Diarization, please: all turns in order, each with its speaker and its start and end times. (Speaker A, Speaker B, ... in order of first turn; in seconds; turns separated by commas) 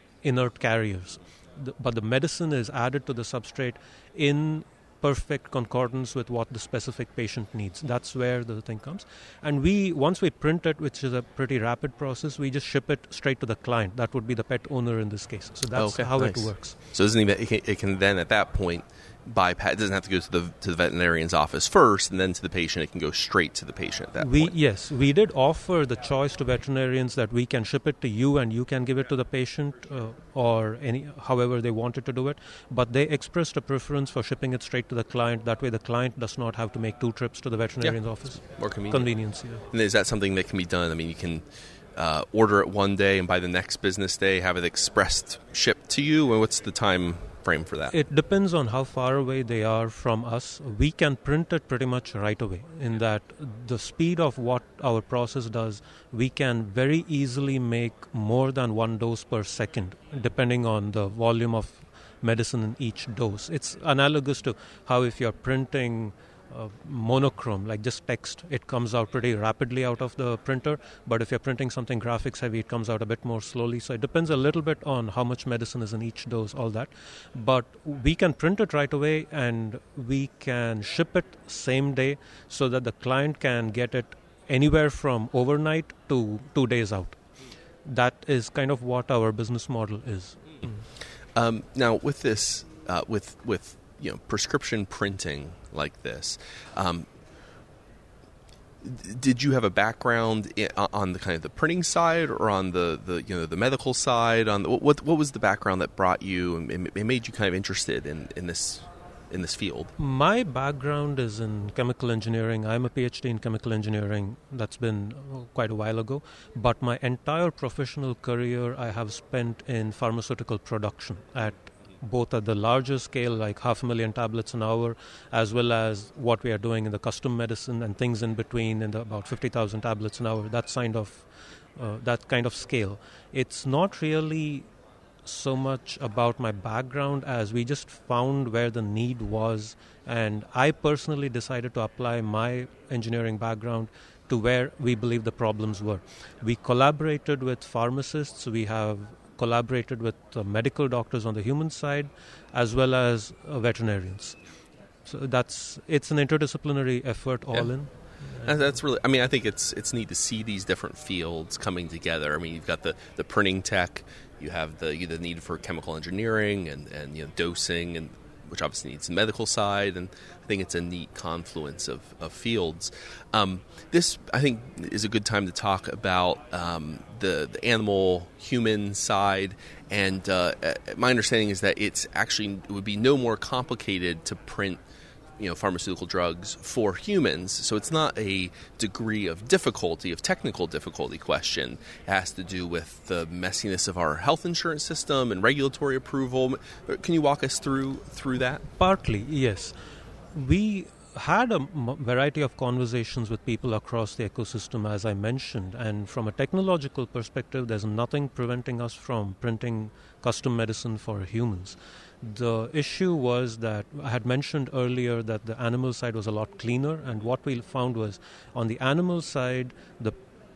Speaker A: 0.2-16.8, Speaker B: 15.8-24.5, Speaker A: 24.2-39.6, Speaker B: 37.8-39.1, Speaker B: 39.7-47.9, Speaker A: 47.9-87.2, Speaker A: 87.8-90.8, Speaker B: 91.3-97.1, Speaker B: 98.8-109.9, Speaker A: 110.0-134.7, Speaker A: 135.2-154.4, Speaker A: 155.1-158.5, Speaker B: 158.4-184.8, Speaker B: 185.4-198.6, Speaker A: 198.8-199.8, Speaker A: 200.3-220.2